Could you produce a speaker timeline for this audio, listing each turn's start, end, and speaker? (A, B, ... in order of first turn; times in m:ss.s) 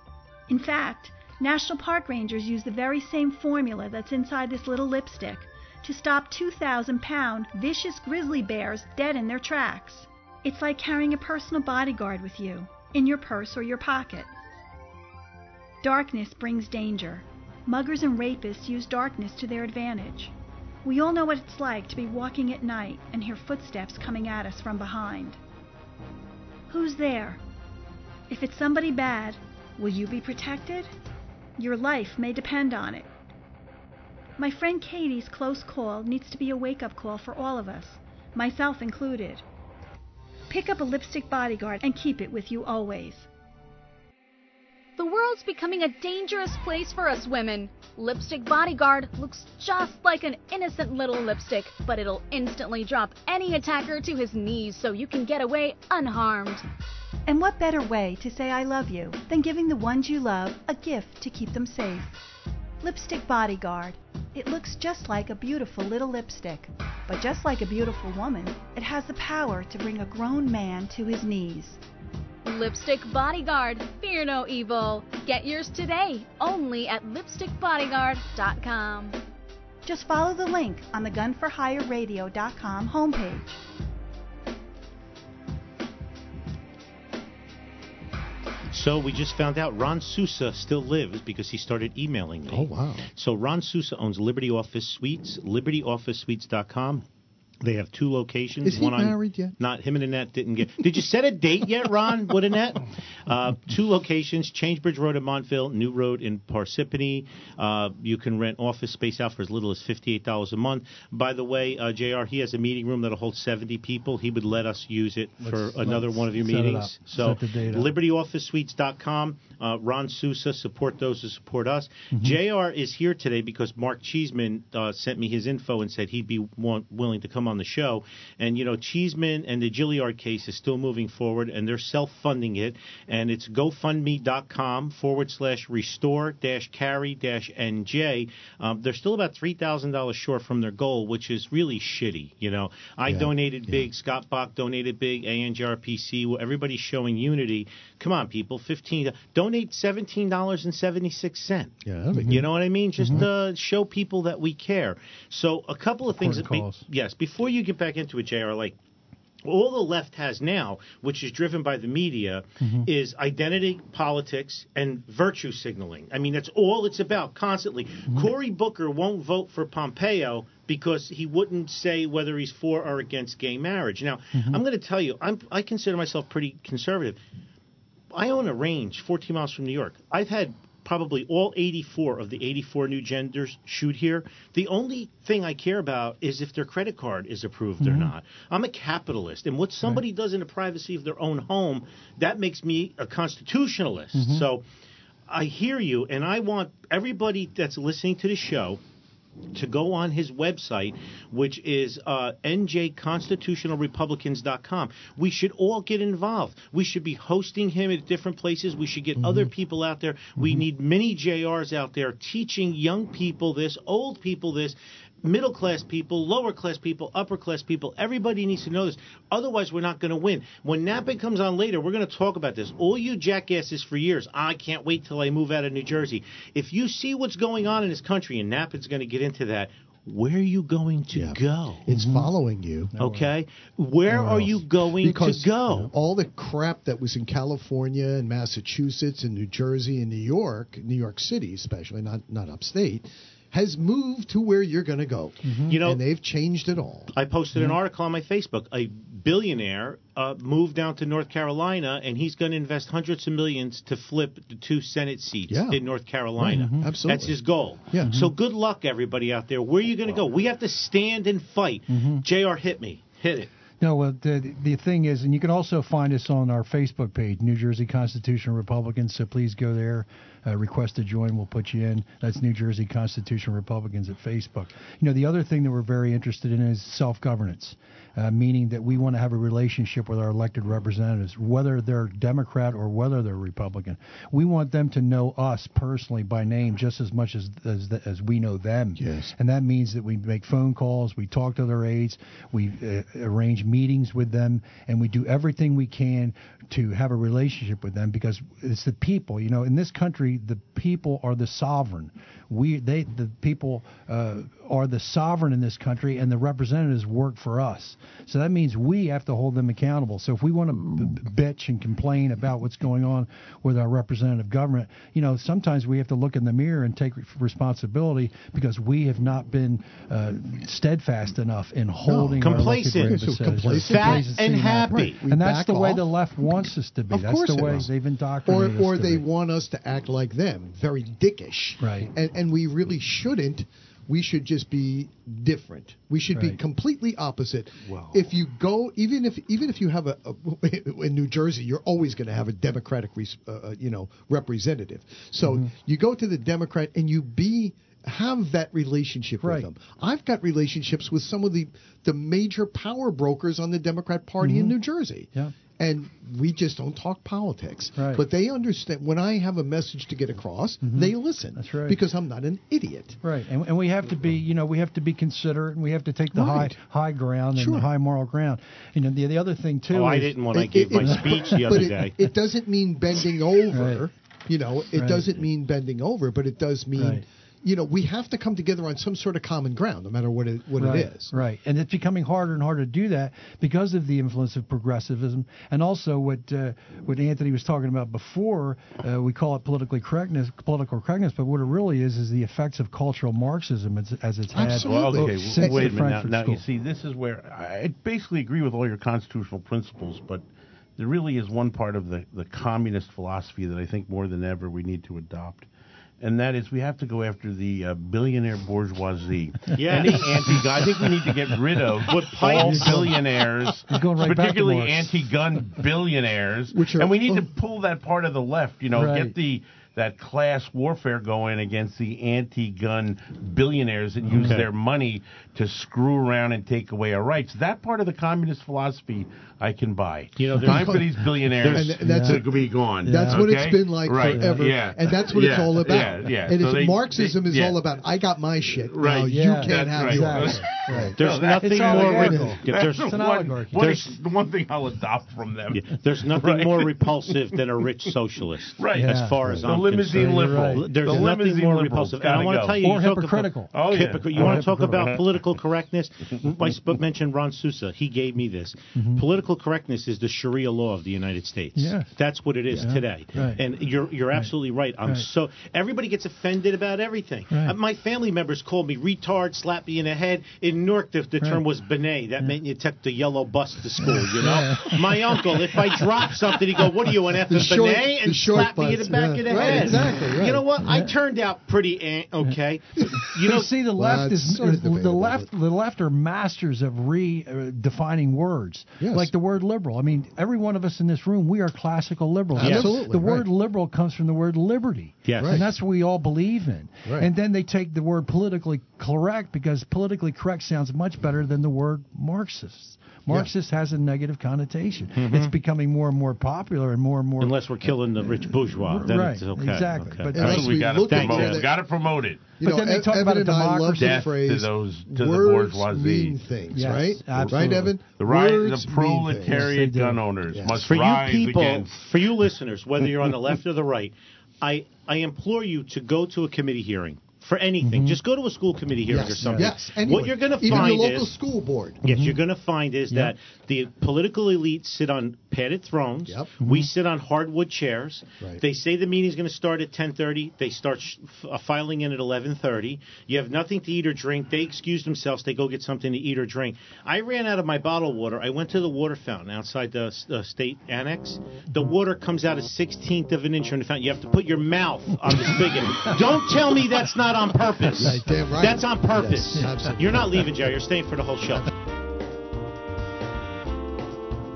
0:00.5-0:14.3 A
0:15.8-0:25.4 A
0:26.7-0:27.4 A
0:28.3-0:30.9 A
0:31.6-0:33.1 A
0:34.4-0:39.4 A
0:40.5-0:43.3 A
0:45.0-0:56.6 B
0:57.3-1:02.2 A
1:02.8-1:11.8 A
1:12.4-1:19.2 B
1:19.8-1:23.6 A
1:28.7-1:37.0 C
1:32.5-1:33.1 D
1:37.6-2:38.8 C
1:38.6-1:39.5 D
1:55.4-1:57.9 E
2:02.1-2:02.4 E
2:23.0-2:23.9 D
2:31.8-2:32.5 D
2:32.1-2:33.3 E
2:36.1-2:36.8 E
2:39.4-2:57.2 C
2:42.6-2:42.9 E
2:54.3-2:54.6 E
2:58.1-3:14.6 C
3:07.8-3:08.1 E
3:14.1-3:14.5 E
3:15.3-3:18.8 C
3:19.5-3:51.9 C
3:29.2-3:29.5 D
3:51.1-3:52.9 D
3:51.9-3:52.3 E
3:52.9-3:53.3 E
3:53.0-3:55.9 C
3:54.1-4:07.1 D
4:05.4-4:05.8 E
4:05.7-4:06.0 C
4:07.1-4:23.5 C
4:15.5-4:15.8 D
4:16.4-4:18.3 D
4:16.5-4:17.0 E
4:18.0-4:18.3 E
4:21.9-4:22.2 E
4:23.8-5:29.3 E
4:49.0-4:49.3 D
5:22.0-5:24.3 D
5:22.4-5:25.2 C
5:24.9-5:27.9 D
5:28.4-6:03.2 D
5:31.8-5:32.1 E
5:36.3-5:36.6 E
5:45.4-5:45.7 E
5:49.4-5:49.7 E
5:54.4-5:54.8 E
5:58.0-5:58.2 E
6:00.8-6:02.0 E
6:03.2-6:11.9 E
6:06.3-6:06.8 D
6:07.6-6:07.9 D
6:09.9-6:12.3 C
6:10.5-6:21.3 D
6:13.7-6:14.1 E
6:14.9-6:15.4 E
6:17.0-6:17.2 E
6:20.8-6:36.6 E
6:34.5-6:36.2 D
6:34.6-6:40.4 F
6:41.0-6:45.7 F
6:46.2-7:17.9 F
6:49.7-6:50.8 C
6:52.0-6:53.2 C
6:52.6-6:53.2 D
6:52.7-6:53.0 E
6:53.9-6:55.2 E
6:56.7-6:57.5 D
6:58.9-6:59.3 E
7:04.2-7:04.6 E
7:04.4-7:04.7 C
7:10.4-7:12.0 C
7:10.6-7:21.2 D
7:12.0-7:12.4 E
7:13.0-7:13.6 E
7:14.1-7:14.7 E
7:18.6-7:27.4 F
7:19.2-7:23.8 E
7:21.2-7:24.2 C
7:21.8-7:22.6 D
7:25.7-8:03.7 C
7:28.8-7:32.8 F
7:28.9-7:31.3 E
7:32.8-7:33.7 E
7:33.7-7:35.2 F
7:34.3-7:35.1 E
7:38.9-7:39.2 E
7:41.8-7:42.1 E
7:42.7-7:43.6 E
7:47.5-7:47.8 E
7:54.0-7:56.3 E
7:57.5-8:00.6 D
7:59.5-8:00.2 E
8:00.8-8:01.1 E
8:03.1-8:30.7 E
8:03.9-8:05.5 D
8:09.0-8:09.3 D
8:12.5-8:13.4 D
8:12.6-8:12.9 C
8:15.2-8:15.6 C
8:15.4-8:15.6 D
8:25.1-8:25.5 C
8:27.4-8:31.6 C
8:30.3-8:31.9 D
8:30.3-8:32.5 F
8:32.6-8:39.7 D
8:32.6-8:34.3 E
8:34.0-8:36.4 F
8:36.7-8:37.9 E
8:37.3-8:42.0 F
8:39.4-8:40.2 E
8:40.5-8:40.8 D
8:40.8-8:51.3 C
8:47.8-8:48.2 E
8:49.1-8:52.0 D
8:49.1-8:49.7 E
8:52.0-9:21.7 C
8:52.0-8:52.4 E
8:56.3-8:56.5 D
8:56.6-8:56.9 E
9:17.9-9:20.5 D